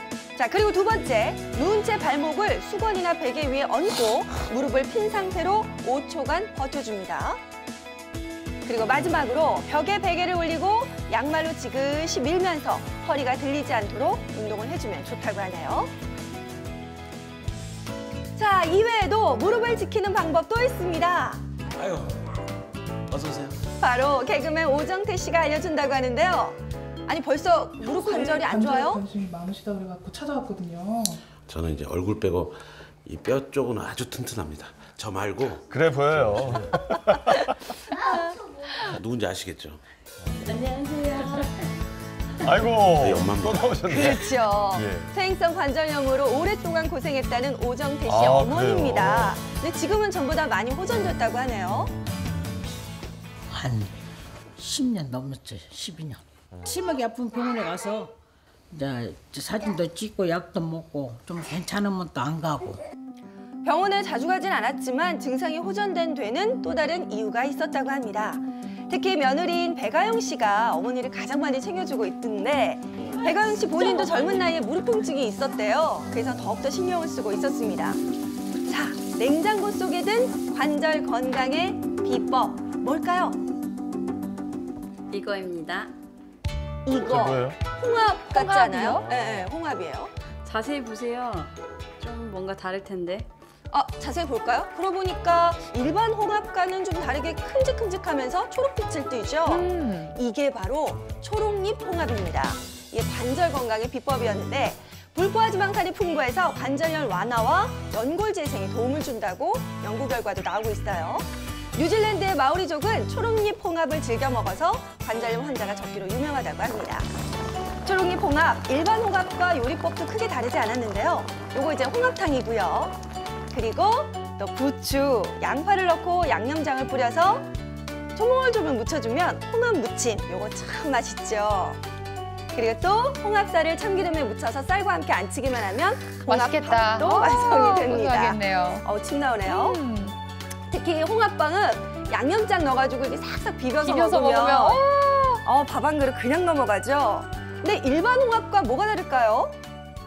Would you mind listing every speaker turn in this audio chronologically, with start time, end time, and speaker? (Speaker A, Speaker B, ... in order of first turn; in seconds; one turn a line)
Speaker A: 0.3-7.4
Speaker A: 8.6-15.9
Speaker A: 18.4-21.4
Speaker B: 23.1-23.5
Speaker A: 23.8-29.0
Speaker C: 27.8-31.2
Speaker B: 31.4-35.6
Speaker D: 35.7-37.5
Speaker A: 37.9-38.7
Speaker B: 38.9-39.8
Speaker E: 40.5-41.5
Speaker D: 42.4-45.1
Speaker B: 43.0-43.7
Speaker A: 43.9-51.9
Speaker D: 48.0-49.4
Speaker F: 53.5-53.9
Speaker F: 54.6-58.1
Speaker F: 58.7-62.8
Speaker A: 63.6-78.0
Speaker A: 78.7-83.4
Speaker E: 85.1-85.9
Speaker A: 86.8-90.1
Speaker D: 87.0-87.6
Speaker G: 88.3-89.1
Speaker D: 89.2-89.5
Speaker E: 90.4-93.3
Speaker A: 93.7-117.1
Speaker G: 99.5-100.1
Speaker A: 117.8-123.0
Speaker A: 123.5-127.5
Speaker A: 128.1-131.8
Speaker A: 132.5-139.8
Speaker G: 136.3-138.8
Speaker G: 139.4-140.2
Speaker A: 140.7-149.6
Speaker G: 143.8-145.0